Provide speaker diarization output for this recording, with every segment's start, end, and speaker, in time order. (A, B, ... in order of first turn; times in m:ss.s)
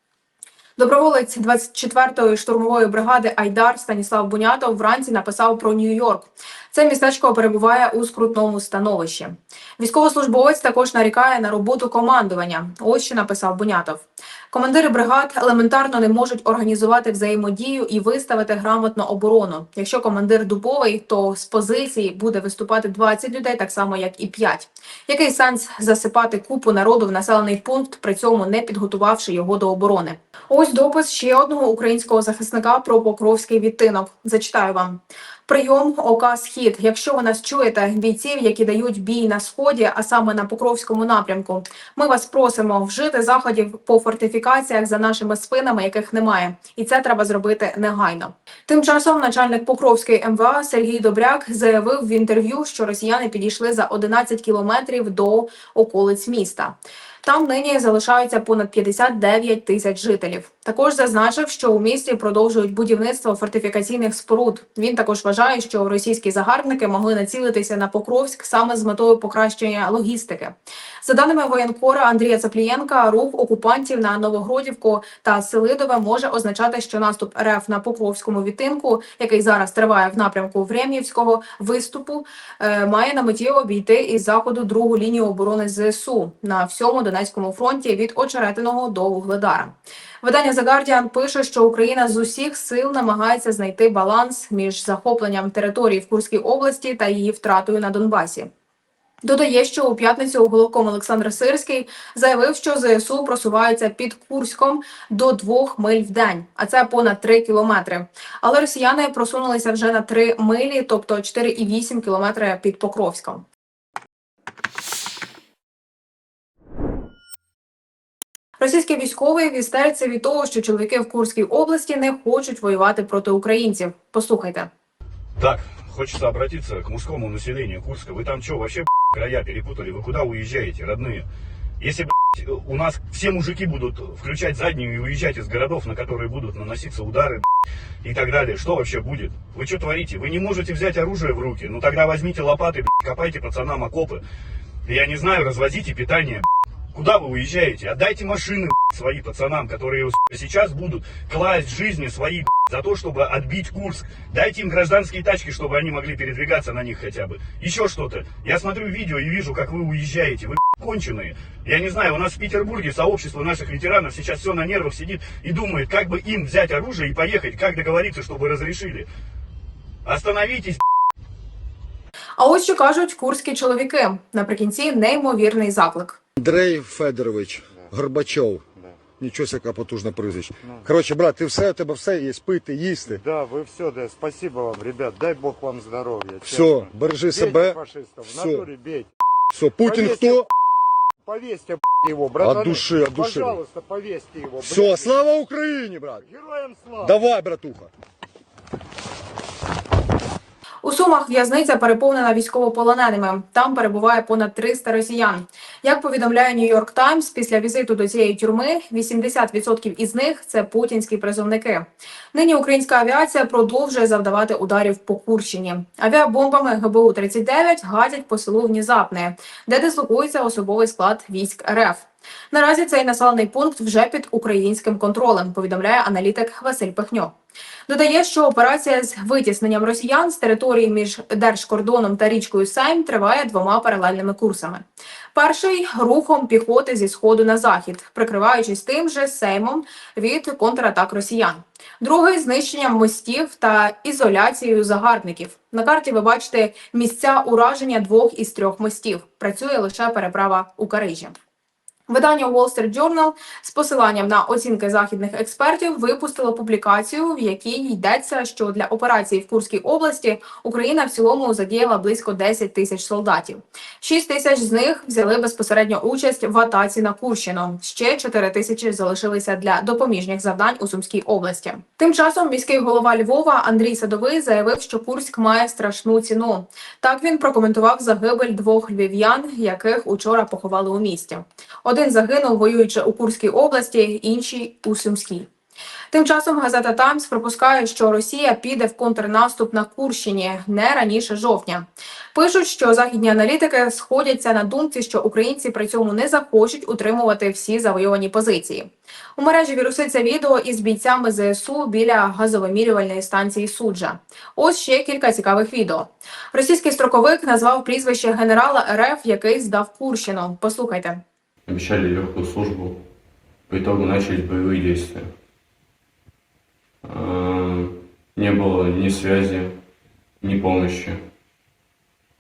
0:00.8-1:38.5 A
1:39.2-1:53.4 A
1:58.6-2:04.7 A
2:05.4-2:11.3 B
2:11.8-2:17.5 B
2:18.0-2:24.2 B
2:24.8-2:49.1 B
2:50.0-2:50.8 B
2:52.4-2:56.2 A
2:56.4-2:58.6 C
2:58.8-2:59.0 D
2:59.2-3:03.2 C
3:03.1-3:09.1 D
3:06.4-3:08.7 C
3:09.5-3:10.5 C
3:09.8-3:10.5 D
3:11.2-3:15.2 D
3:12.4-3:13.6 C
3:14.6-3:16.2 C
3:16.2-3:17.2 D
3:17.0-3:17.9 C
3:20.8-3:47.3 A
3:47.9-4:11.3 A
4:12.1-4:45.5 A
4:46.1-5:11.2 A
5:11.7-5:13.0 E
5:13.7-5:15.3 E
5:17.0-5:19.8 E
5:20.4-5:21.3 E